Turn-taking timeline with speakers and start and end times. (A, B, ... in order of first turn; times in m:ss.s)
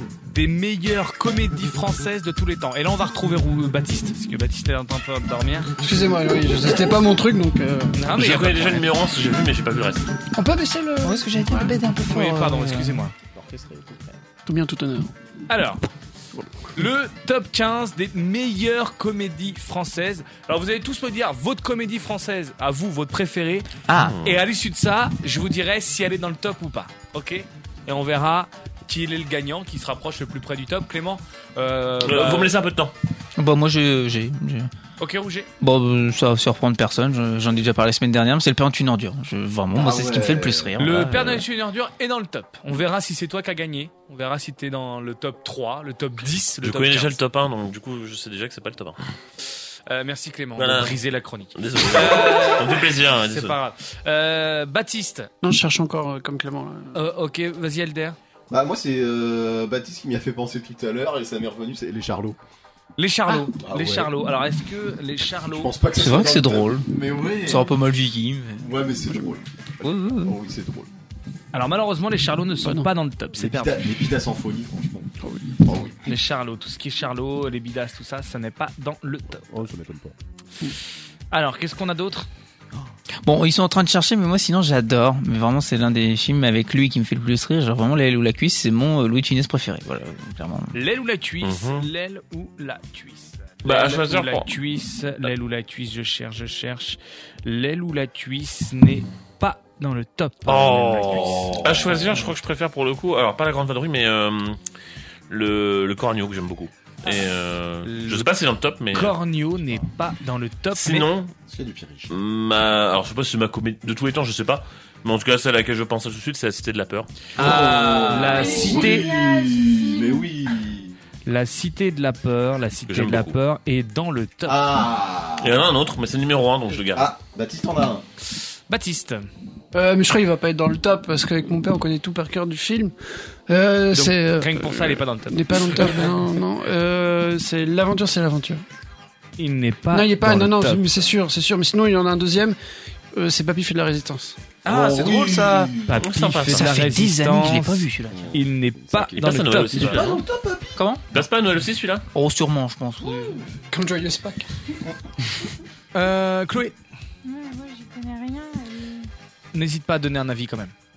0:00.3-0:05.7 A
0:05.8-0:08.0 B
0:07.9-0:08.9 A
0:08.1-0:10.1 C
0:10.3-0:11.2 B
0:11.0-0:13.0 D
0:12.0-0:13.1 A
0:13.3-0:14.2 E
0:14.4-0:15.1 B
0:15.5-0:15.8 A
0:16.3-0:16.6 B
0:16.8-0:23.7 A
0:23.9-0:24.1 D
0:24.0-0:24.4 C
0:24.2-0:32.5 A
0:32.0-0:32.9 C
0:33.4-0:34.7 D
0:35.0-0:35.5 A
0:35.6-0:41.4 D
0:39.7-0:41.1 E
0:40.8-0:47.2 A
0:46.6-0:49.0 C
0:49.9-0:55.3 A
0:50.6-0:51.0 C
0:51.6-0:53.6 C
0:55.4-0:56.9 B
0:56.9-0:58.2 A
0:58.5-1:02.4 E
1:03.0-1:05.7 A
1:03.6-1:04.1 E
1:05.5-1:07.8 E
1:06.0-1:06.9 D
1:07.4-1:08.7 D
1:08.6-1:10.9 E
1:09.8-1:10.4 D
1:11.5-1:13.8 A
1:12.6-1:12.9 B
1:13.3-1:16.0 E
1:15.2-1:15.6 B
1:16.1-1:19.5 A
1:19.5-1:20.1 E
1:21.3-1:22.3 A
1:23.2-1:30.7 D
1:30.7-1:41.6 A
1:31.4-1:31.9 C
1:33.6-1:34.5 C
1:40.4-1:44.6 C
1:41.2-1:42.2 E
1:45.3-1:49.1 C
1:47.8-1:48.3 A
1:48.9-1:51.1 A
1:50.8-1:51.3 C
1:51.5-1:52.1 E
1:52.1-1:57.1 C
1:57.4-2:00.9 E
1:57.4-1:58.5 D
1:57.4-1:59.1 A
1:58.3-2:00.3 F
2:01.2-2:04.8 A
2:02.9-2:03.3 C
2:04.4-2:05.6 E
2:05.4-2:07.1 C
2:06.9-2:08.0 E
2:08.7-2:09.3 A
2:09.7-2:12.9 B
2:13.5-2:18.6 B
2:13.9-2:16.1 A
2:19.4-2:20.8 A
2:19.9-2:22.6 B
2:23.1-2:24.4 B
2:24.6-2:28.4 D
2:24.6-2:25.9 E
2:25.9-2:30.0 A
2:26.0-2:26.7 C
2:28.1-2:30.8 E
2:29.2-2:30.2 C
2:30.8-2:31.0 D
2:31.1-2:32.0 C
2:32.1-2:33.4 D
2:33.1-2:33.4 E
2:33.7-2:34.4 B
2:35.9-2:36.8 A
2:37.2-2:39.1 F
2:39.5-2:40.7 A